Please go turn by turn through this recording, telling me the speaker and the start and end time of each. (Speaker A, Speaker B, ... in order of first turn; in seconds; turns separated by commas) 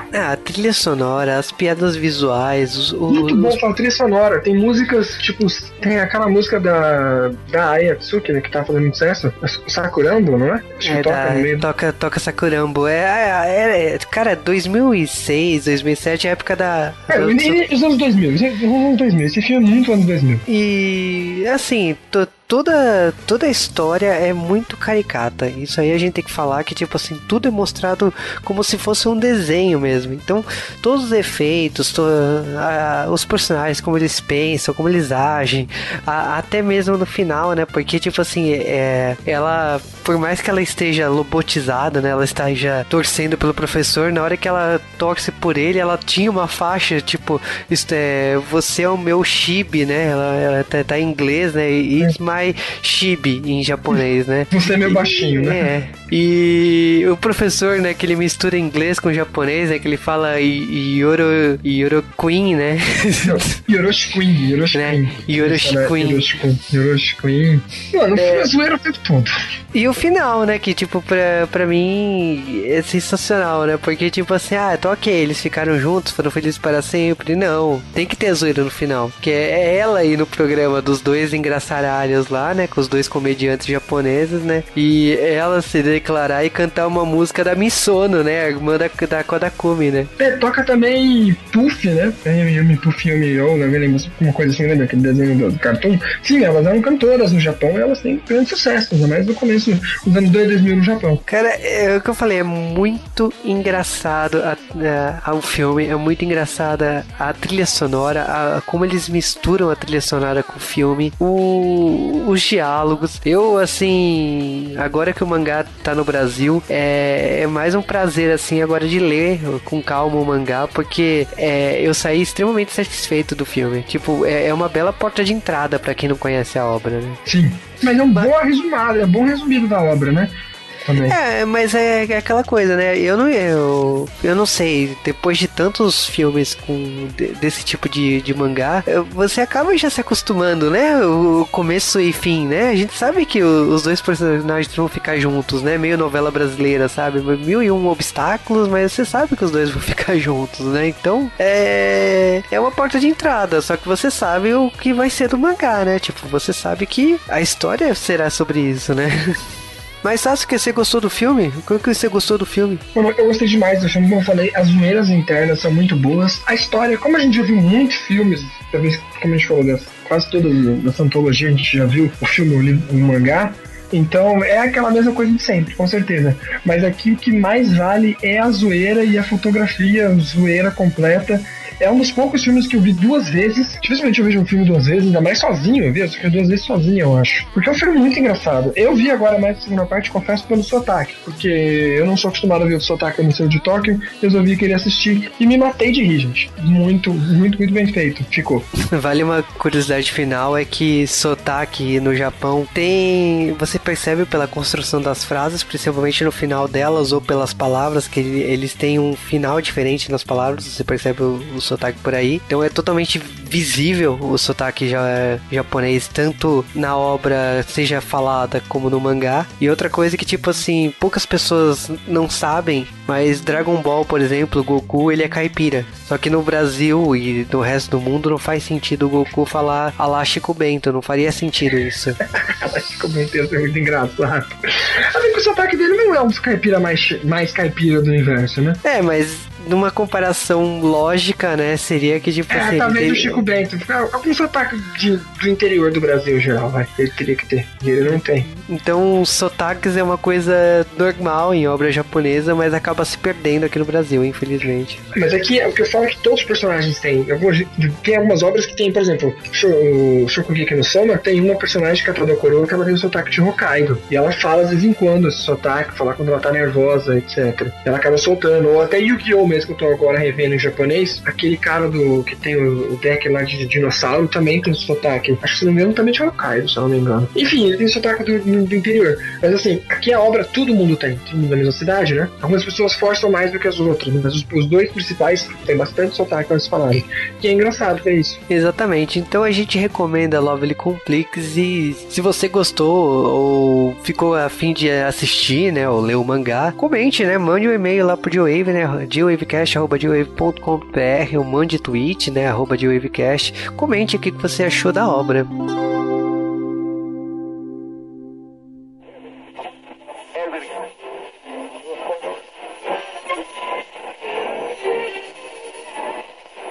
Speaker A: 0.1-3.6, Speaker B: 3.1-11.7, Speaker A: 10.8-17.6, Speaker B: 17.1-20.4, Speaker A: 20.5-63.6, Speaker B: 54.5-55.7, Speaker B: 63.2-69.3, Speaker A: 64.7-66.3, Speaker A: 68.2-68.5, Speaker A: 69.7-90.1, Speaker B: 90.2-101.2, Speaker A: 101.3-127.2, Speaker B: 127.3-130.3, Speaker B: 130.8-131.2, Speaker A: 131.0-159.4, Speaker A: 160.0-162.8, Speaker B: 162.9-198.7, Speaker A: 198.8-232.2, Speaker B: 232.4-238.8, Speaker A: 238.8-243.4, Speaker B: 242.5-248.5, Speaker A: 248.1-255.0, Speaker B: 255.1-288.4, Speaker A: 288.5-305.5